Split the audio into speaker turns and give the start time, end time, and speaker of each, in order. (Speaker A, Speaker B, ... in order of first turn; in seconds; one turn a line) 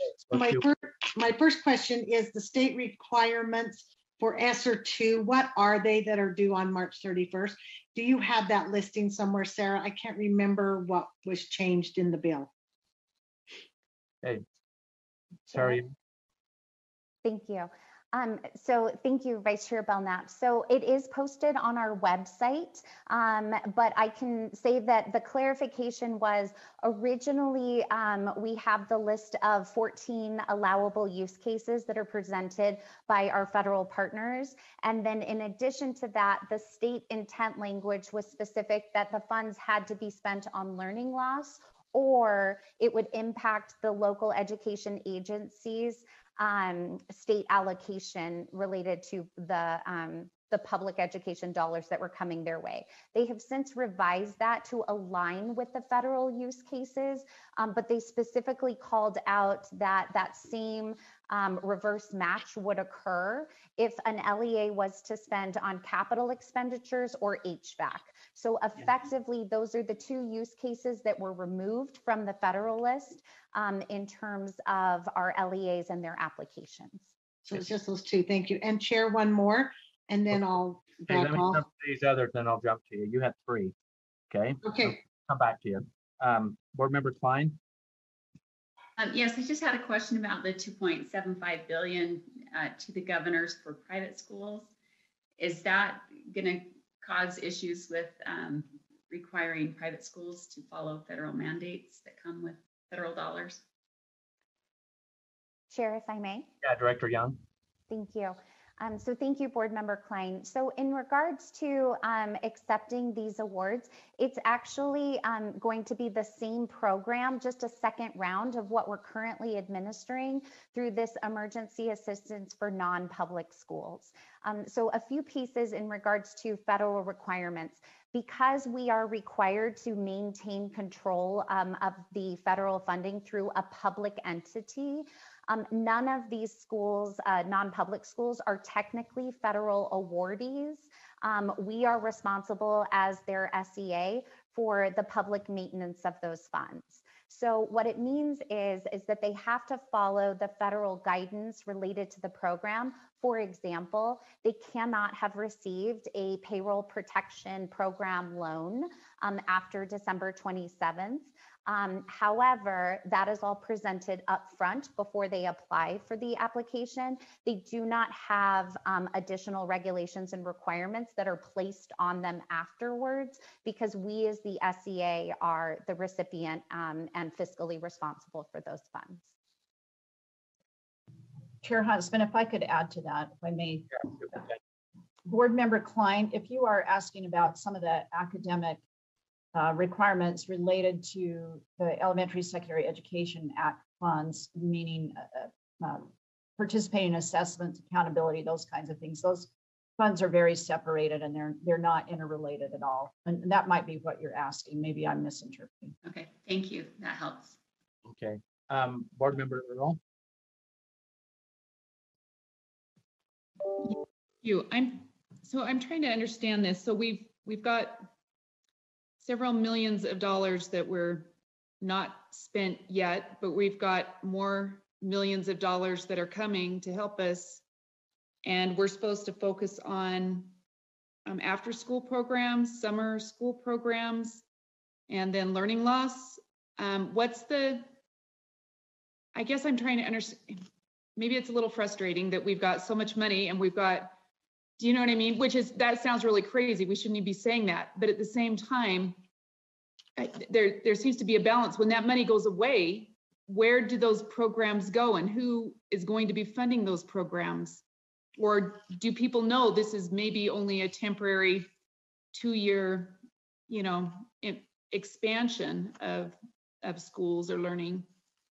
Speaker A: 0.2-0.7
Speaker B: 0.3-12.5
Speaker C: 15.5-15.8
Speaker A: 15.5-15.9
Speaker C: 17.2-77.1
Speaker B: 77.4-81.6
Speaker A: 81.0-83.7
Speaker A: 84.3-87.6
Speaker B: 84.6-84.9
Speaker D: 89.0-94.7
Speaker D: 95.4-103.6
Speaker C: 105.7-106.5
Speaker A: 106.6-107.4
Speaker C: 107.9-179.3
Speaker E: 181.6-184.4
Speaker E: 185.2-188.8
Speaker E: 189.5-205.9
Speaker D: 206.0-207.6
Speaker A: 208.1-210.0
Speaker F: 213.8-218.1
Speaker F: 219.2-227.6
Speaker F: 228.4-230.5
Speaker F: 231.2-234.4
Speaker F: 235.1-237.9
Speaker F: 239.3-240.6
Speaker F: 241.2-244.1
Speaker F: 244.8-249.2
Speaker F: 250.2-257.8
Speaker F: 258.4-261.7
Speaker F: 262.3-268.1